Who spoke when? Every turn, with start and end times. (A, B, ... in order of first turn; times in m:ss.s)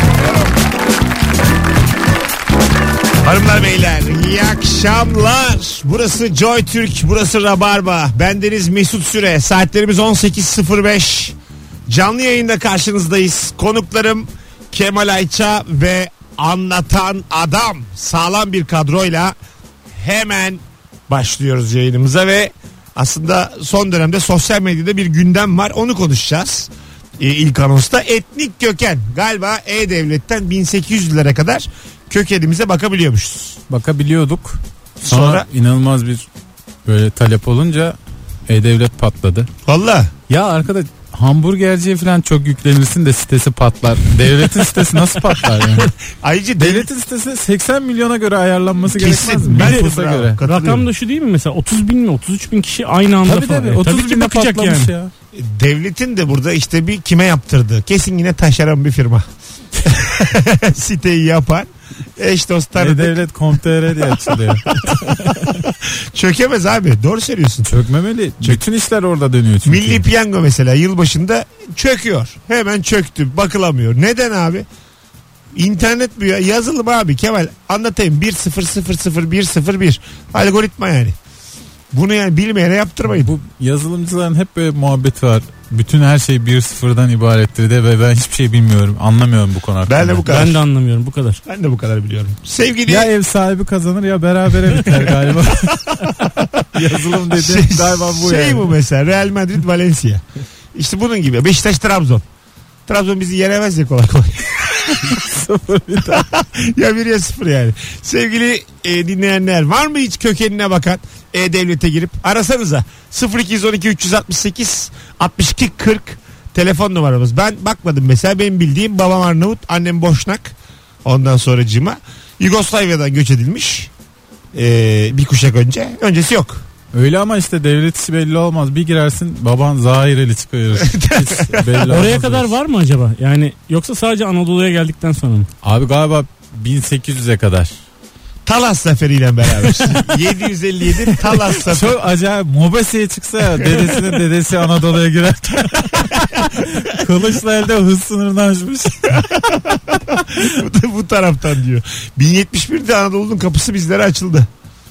0:03.2-0:11.4 A
0:11.9-0:19.4 A
0:20.0-0:33.6 A
0:33.7-0:36.3 B
0:35.0-0:35.5 A
0:36.9-0:38.0 B
0:38.5-0:39.5 B
0:39.7-0:40.1 A
0:40.3-0:45.9 B
0:46.2-0:46.9 A
0:46.6-0:50.4 B
0:48.9-0:50.9 A
0:49.6-0:49.9 C
0:50.4-0:54.9 C
0:53.2-0:55.1 B
0:55.3-0:59.2 A
0:59.8-1:03.3 A
1:02.8-1:04.8 B
1:04.7-1:05.0 A
1:05.8-1:07.7 A
1:07.7-1:10.0 B
1:09.7-1:14.7 A
1:15.5-1:21.2 A
1:21.9-1:23.3 A
1:23.2-1:30.3 B
1:29.9-1:30.6 A
1:30.3-1:31.4 C
1:31.5-1:33.1 A
1:32.9-1:36.2 B
1:34.9-1:35.5 A
1:36.3-1:36.8 A
1:36.7-1:38.7 B
1:37.3-1:40.2 A
1:40.8-1:42.2 A
1:42.9-1:45.2 A
1:45.0-1:46.3 B
1:46.1-2:03.9 A
2:04.5-2:06.6 A
2:06.9-2:12.5 B
2:10.8-2:11.6 A
2:11.9-2:15.5 C
2:15.6-2:17.8 B
2:18.5-2:22.0 A
2:21.6-2:29.2 B
2:29.2-2:34.5 A